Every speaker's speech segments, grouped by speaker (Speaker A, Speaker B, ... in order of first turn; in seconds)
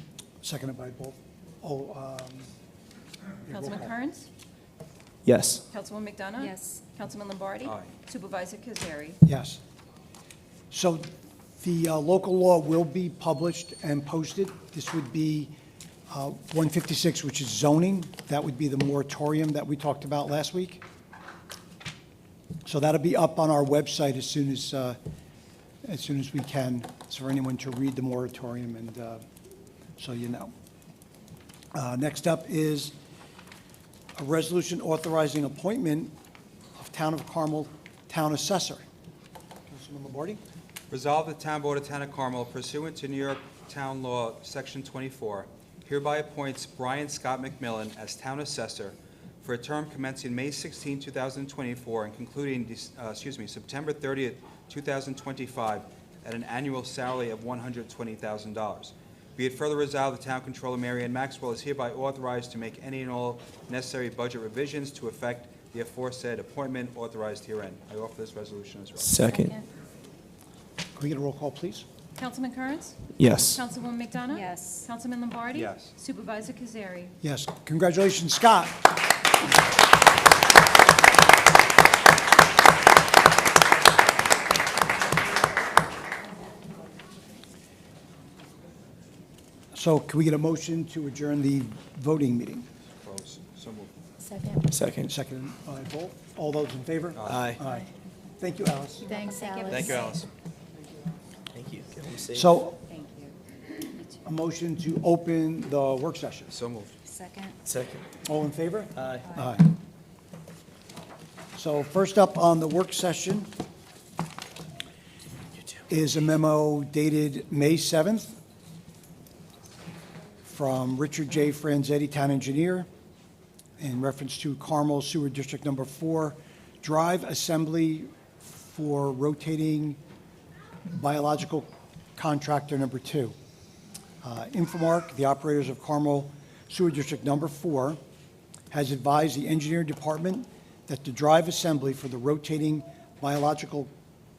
Speaker A: 0.4-2.5, 3.4-4.0, 9.2-9.6, 10.7-15.5, 16.1-20.8, 22.6-25.0, 25.8-29.2, 30.0-30.5, 31.7-32.9, 34.2-36.1, 36.8-38.8, 39.7-40.4, 71.0-71.9, 77.2-78.9, 89.7-92.7, 95.0-99.1, 102.3-102.8, 104.2-106.5, 108.2-109.7, 111.5-113.5, 115.9-118.3, 120.5-122.9, 123.8-130.0, 130.9-133.3, 134.2-138.0, 138.7-143.9
Speaker B: 3.5-4.3, 5.7-9.2, 72.2-73.0, 73.5-77.1
Speaker C: 5.2-5.6, 69.0-69.5, 73.2-73.6, 94.7-95.1, 97.3-97.6, 101.5-102.5, 107.7-108.1, 109.0-109.3
Speaker D: 6.4-6.8, 69.3-69.7, 74.3-74.9, 94.2-94.5, 99.0-100.1, 102.9-103.3, 107.0-107.6
Speaker E: 7.6-7.9, 40.9-69.2, 75.5-75.9, 93.0-93.9, 97.2-97.5, 99.7-100.3, 106.5-107.0